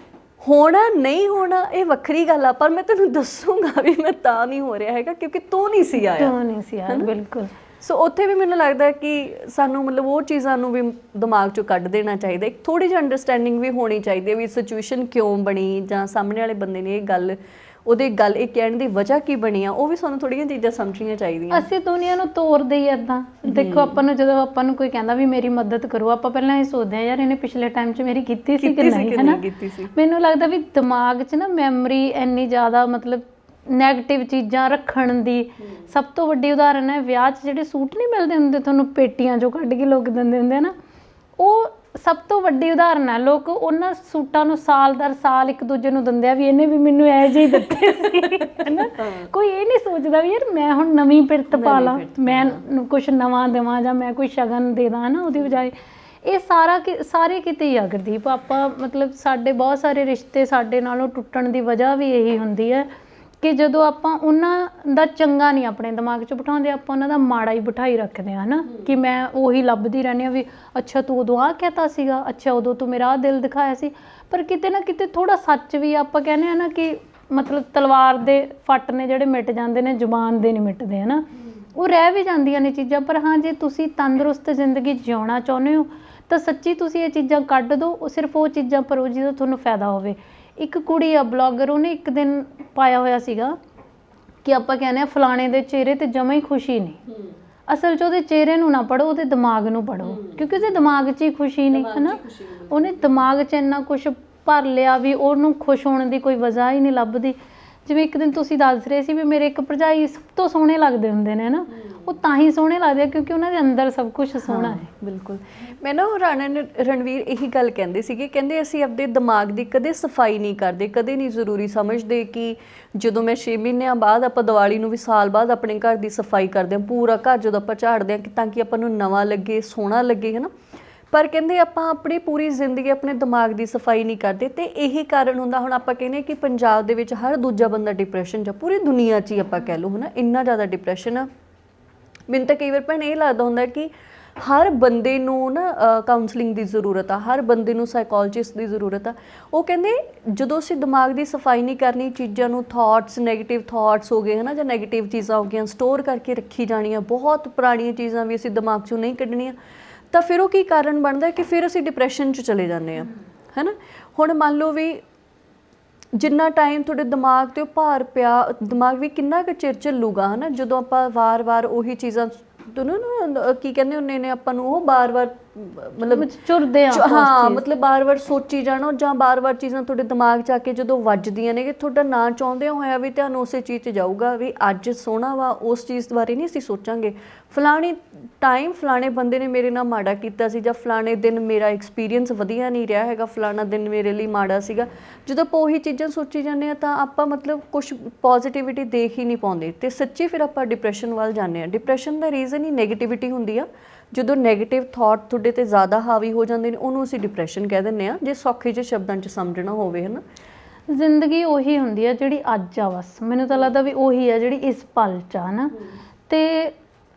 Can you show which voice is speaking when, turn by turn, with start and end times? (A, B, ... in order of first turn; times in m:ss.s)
0:00.4-0:06.4 A
0:06.0-0:07.5 B
0:07.8-0:21.7 A
0:21.5-0:40.7 B
0:23.4-0:24.0 A
0:28.6-0:29.9 A
0:41.4-1:02.9 B
0:47.7-0:49.3 A
0:51.5-0:52.6 A
1:03.4-1:33.6 B
1:34.4-1:37.0 B
1:37.1-1:37.4 A
1:37.7-1:54.9 B
1:40.0-1:40.7 A
1:41.7-1:43.2 A
1:51.8-1:52.0 A
1:54.5-2:10.5 A
2:11.1-2:21.3 A
2:22.3-2:39.6 A
2:40.1-2:45.0 A
2:46.2-2:56.3 A
2:56.1-2:57.6 B
2:56.9-3:30.2 A
3:30.9-3:35.8 B
3:36.3-3:36.8 B